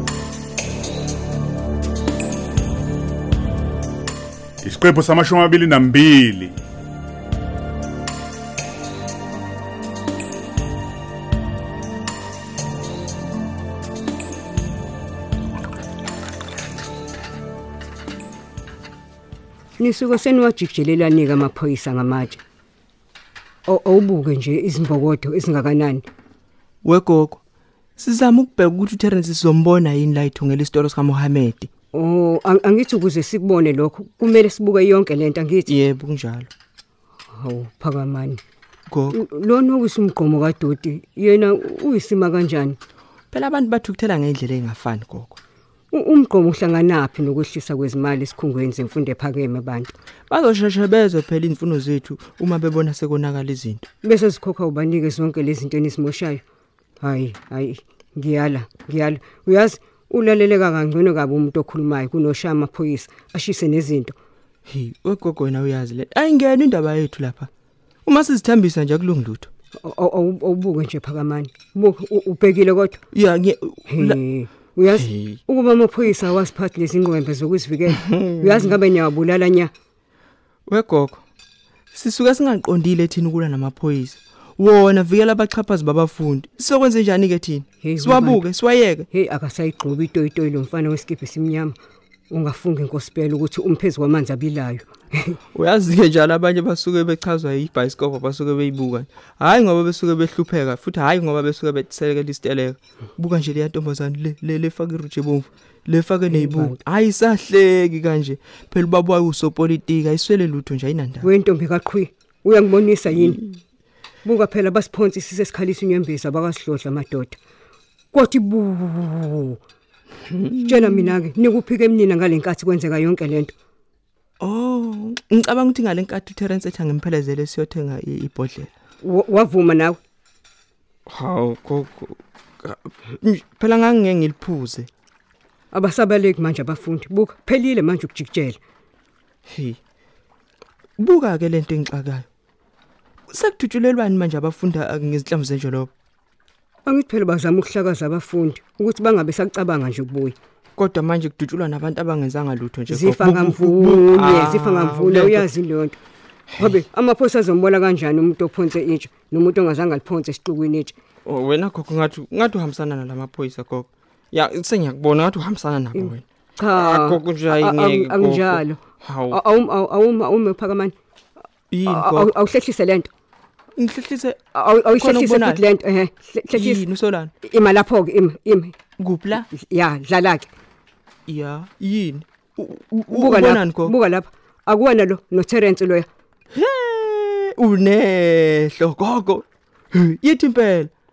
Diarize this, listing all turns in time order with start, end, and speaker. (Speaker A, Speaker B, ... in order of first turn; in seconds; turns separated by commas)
Speaker A: 4.6-6.5, Speaker B: 19.8-22.4, Speaker B: 23.7-26.0, Speaker C: 26.8-27.4, Speaker C: 28.0-31.7, Speaker B: 31.9-35.7, Speaker C: 35.7-36.5, Speaker B: 37.3-38.4, Speaker C: 38.9-39.2, Speaker B: 39.1-42.8, Speaker C: 43.3-45.4, Speaker B: 45.9-49.9, Speaker C: 50.3-53.9, Speaker B: 54.0-56.4, Speaker B: 57.0-64.2, Speaker C: 64.7-67.5, Speaker C: 68.1-69.5, Speaker B: 69.8-73.0, Speaker C: 73.1-75.4, Speaker B: 73.9-79.7, Speaker C: 77.9-78.8, Speaker C: 80.7-81.2, Speaker C: 81.9-89.1, Speaker B: 87.8-88.4, Speaker B: 89.1-91.8, Speaker B: 92.3-95.4, Speaker C: 95.5-111.3, Speaker B: 106.3-106.8, Speaker B: 111.2-113.5, Speaker C: 113.1-113.4, Speaker B: 114.2-117.4, Speaker B: 118.1-119.6, Speaker C: 120.3-121.2, Speaker B: 120.7-123.5, Speaker C: 124.4-128.7, Speaker B: 129.0-130.0, Speaker C: 131.1-134.9, Speaker B: 135.7-138.6, Speaker C: 139.5-139.8, Speaker C: 141.0-142.3, Speaker C: 143.3-145.9, Speaker B: 146.9-150.4, Speaker C: 150.8-155.5, Speaker B: 152.9-156.0, Speaker C: 156.5-156.8, Speaker B: 156.6-160.9, Speaker C: 161.2-169.4, Speaker B: 165.9-170.9, Speaker C: 171.7-172.4, Speaker B: 171.9-173.1, Speaker C: 173.8-175.7, Speaker B: 174.5-176.8, Speaker C: 176.5-177.3, Speaker B: 177.4-178.8, Speaker C: 179.0-179.5, Speaker B: 179.5-180.5, Speaker C: 181.3-184.0, Speaker B: 183.1-186.1, Speaker C: 186.6-190.9